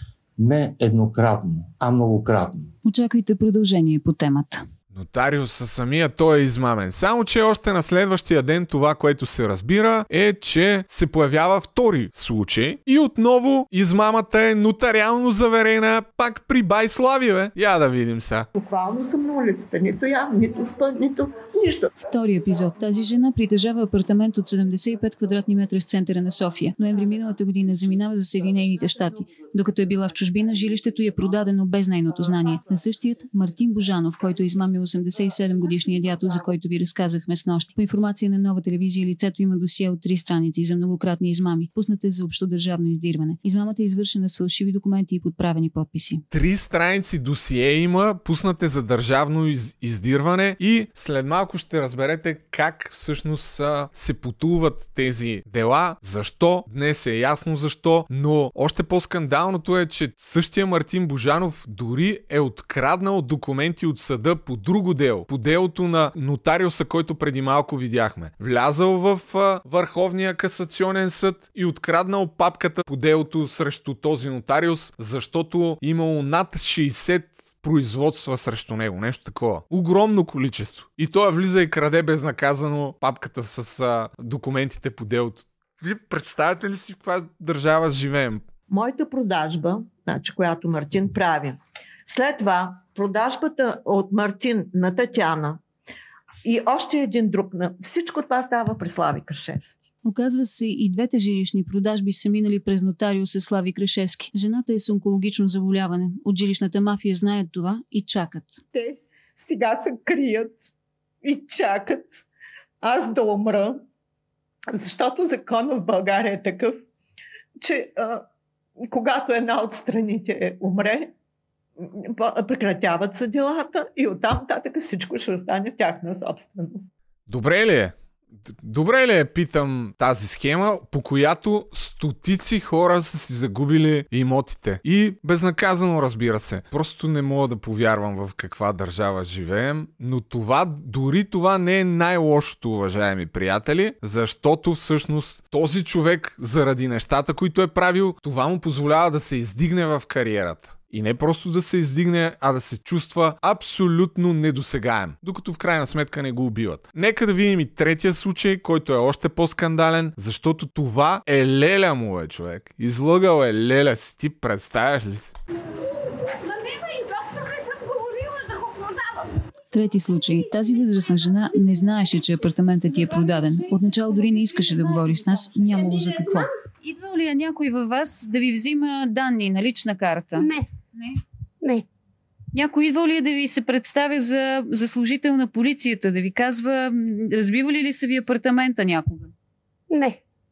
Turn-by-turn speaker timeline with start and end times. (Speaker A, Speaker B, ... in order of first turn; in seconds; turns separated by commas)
Speaker A: 0.4-2.7, Speaker B: 2.8-4.7, Speaker C: 4.9-18.5, Speaker D: 18.6-21.9, Speaker B: 22.1-46.2, Speaker C: 46.3-88.5, Speaker D: 88.7-95.6, Speaker D: 96.4-99.8, Speaker B: 100.0-108.6, Speaker D: 108.7-110.7, Speaker D: 111.2-112.2, Speaker D: 112.8-113.8, Speaker D: 114.7-116.8, Speaker D: 117.6-118.2, Speaker D: 118.8-121.1, Speaker D: 121.8-126.9, Speaker C: 127.3-165.3, Speaker E: 166.3-169.3, Speaker B: 169.7-180.4, Speaker E: 180.3-180.7, Speaker B: 182.6-189.2, Speaker E: 189.9-190.2